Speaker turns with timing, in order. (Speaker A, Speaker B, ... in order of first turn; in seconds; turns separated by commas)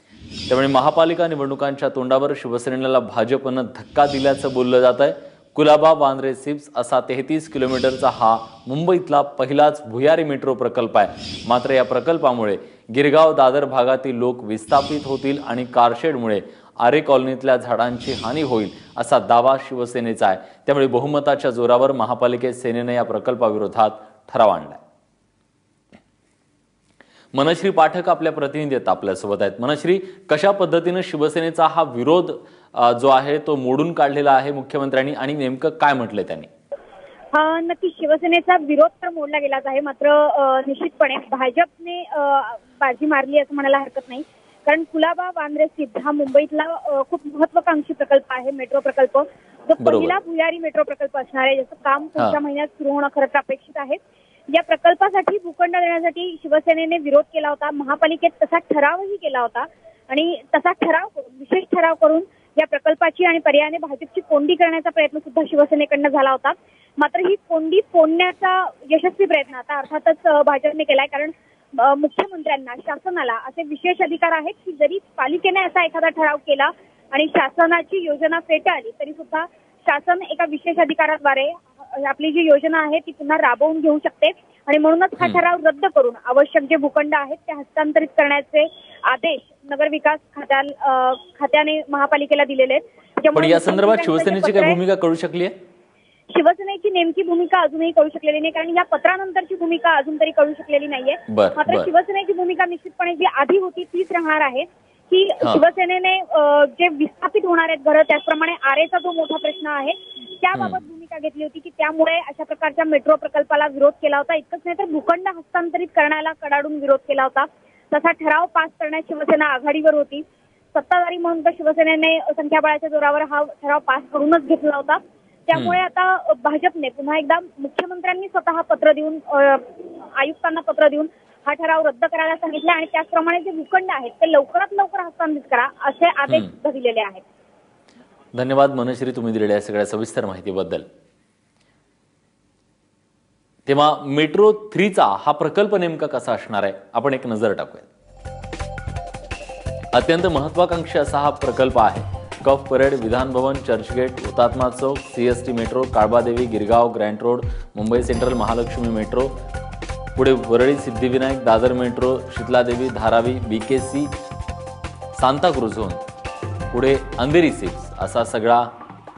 Speaker A: 0.5-24.8, Speaker A: 27.3-36.5, Speaker B: 37.3-54.0, Speaker A: 49.8-50.1, Speaker B: 54.5-94.8, Speaker A: 93.3-95.5, Speaker B: 96.3-137.2, Speaker A: 101.3-101.9, Speaker A: 138.3-140.8, Speaker A: 143.7-147.9, Speaker A: 149.9-159.3, Speaker A: 160.2-164.1, Speaker A: 165.2-166.0, Speaker A: 166.7-168.7